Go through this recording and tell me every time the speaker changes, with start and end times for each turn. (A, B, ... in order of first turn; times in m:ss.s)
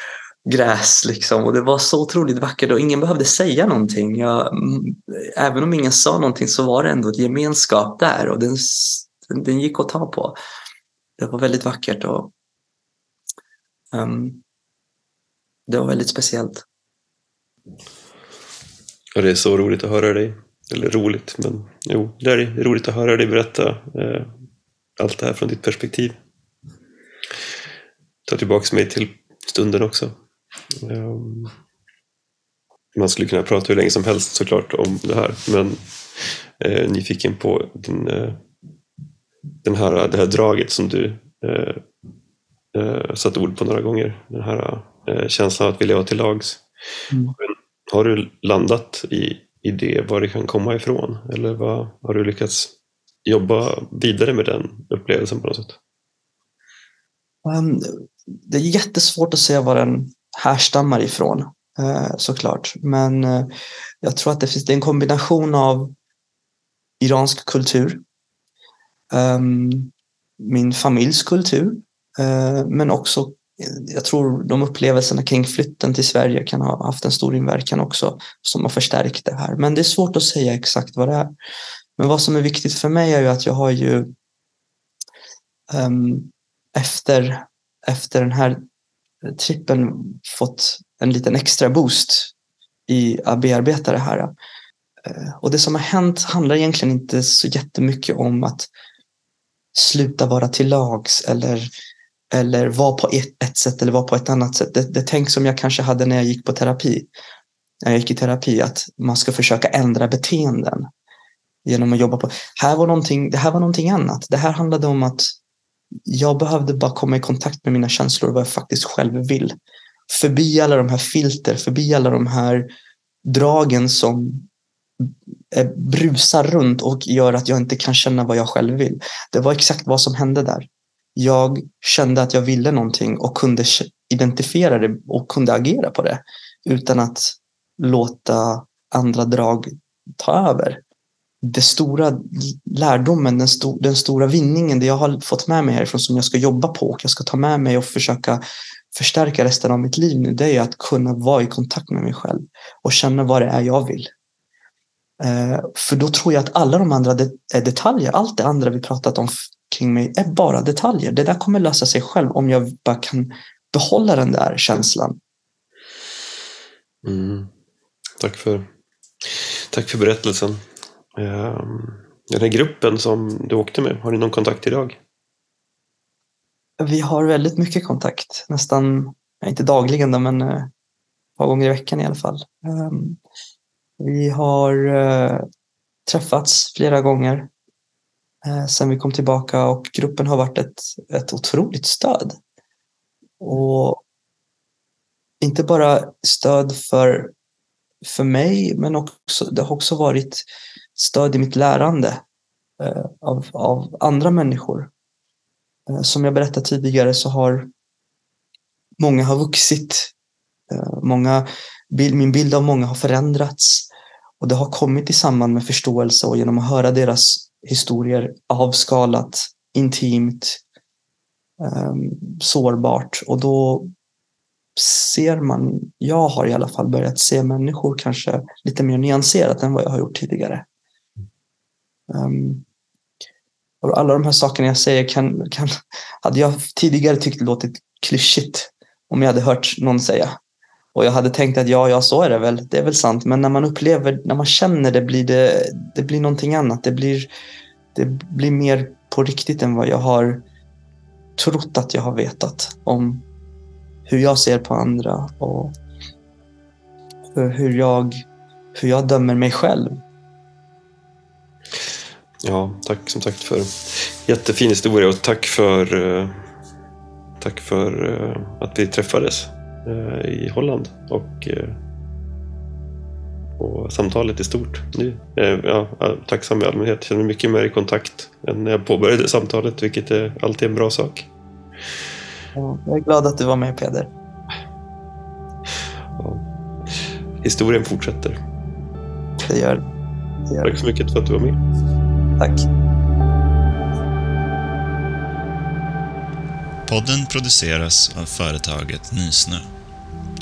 0:00.5-0:10.4 A
0:11.2-0:12.3 A
0:13.9-0:14.4 A
0:15.7-0:16.6 A
0:19.2-0:24.3 B
0:25.0-0:26.2 B
0:28.3-0:30.2 B
0:30.7-0:31.6 B
0:33.0-0:38.4 B
0:39.6-0:41.8 B
0:42.7-0:46.6 B
0:47.4-0:52.7 B
0:53.2-0:55.8 B
0:57.4-1:03.5 A
1:04.0-1:05.9 A
1:07.0-1:08.0 A
1:09.1-1:21.3 A
1:22.0-1:24.1 A
1:25.7-1:28.6 A
1:29.3-1:32.3 A
1:32.9-1:34.3 A
1:35.0-1:38.7 A
1:39.8-1:41.7 A
1:42.3-1:47.1 A
1:47.8-1:50.9 A
1:51.7-1:55.4 A
1:56.1-1:59.6 A
2:00.1-2:02.7 A
2:03.3-2:04.5 A
2:05.0-2:20.8 A
2:21.4-2:28.4 A
2:28.9-2:34.1 A
2:35.2-2:45.2 A
2:47.0-2:47.5 B
2:48.2-2:48.7 B
2:49.2-2:50.6 B
2:51.2-2:55.0 B
2:56.8-3:00.7 A
3:01.4-3:03.2 A
3:04.0-3:05.4 A
3:06.1-3:07.5 A
3:08.4-3:12.4 A
3:13.4-3:14.0 A
3:15.4-3:17.4 A
3:18.0-3:22.2 A
3:22.8-3:24.9 A
3:25.9-3:27.7 A
3:29.0-3:30.1 A
3:30.7-3:33.9 A
3:34.4-3:40.6 A
3:41.6-3:43.9 A
3:44.8-3:50.7 A
3:52.1-3:52.6 A
3:53.8-4:00.4 A
4:00.9-4:07.3 A
4:07.9-4:10.4 A
4:11.4-4:13.2 A
4:14.1-4:15.8 A
4:17.4-4:20.0 A
4:22.4-4:26.4 B
4:27.4-4:31.8 B
4:33.6-4:41.3 B
4:42.6-4:44.1 A
4:46.2-4:48.4 B
4:49.4-4:49.8 A
4:50.5-4:50.7 A
4:50.6-4:51.6 B
4:52.4-4:52.7 A
4:56.9-4:59.7 C